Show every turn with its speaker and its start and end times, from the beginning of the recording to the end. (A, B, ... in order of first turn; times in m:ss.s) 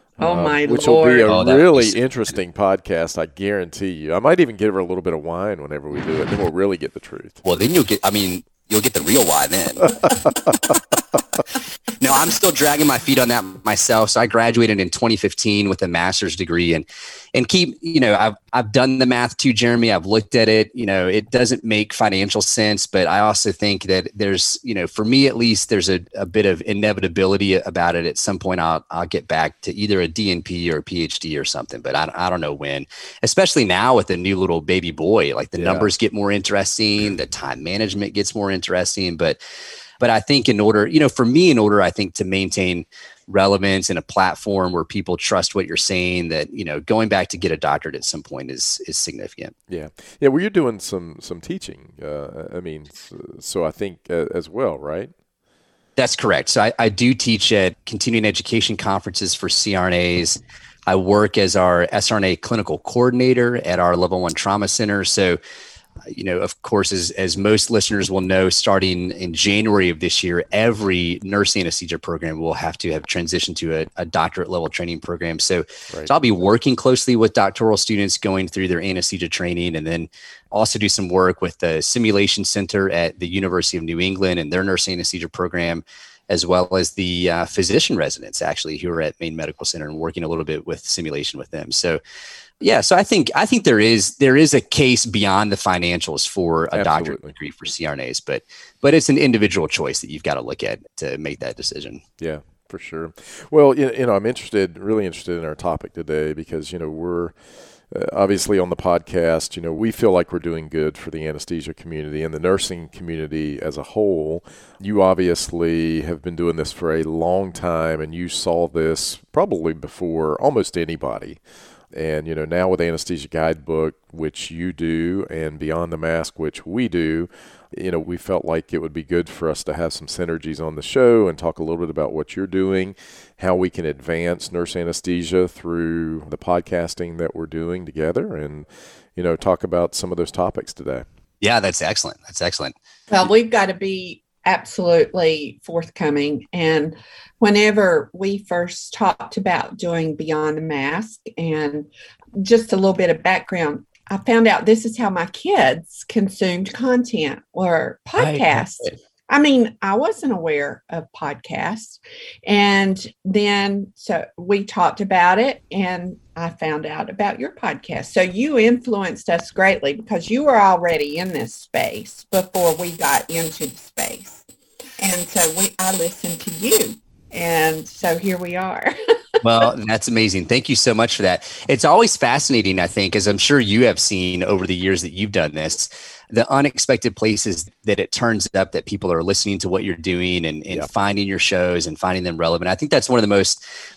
0:00.2-0:01.6 A
0:00.2-0:07.4 B
0:01.2-0:02.0 C
0:07.4-0:09.9 C
0:12.0-0:39.4 C
0:35.6-0:35.9 B
0:40.0-0:49.5 C
0:49.7-0:55.1 B
0:56.0-1:05.4 C
1:06.0-1:32.0 C
1:32.6-1:42.0 C
1:36.7-1:37.3 B
1:42.2-1:47.3 B
1:47.9-2:01.4 B
2:01.9-2:21.0 B
2:21.4-2:22.7 C
2:23.1-2:54.4 A
2:38.2-2:38.9 C
2:55.0-2:59.4 A
2:59.4-3:13.6 C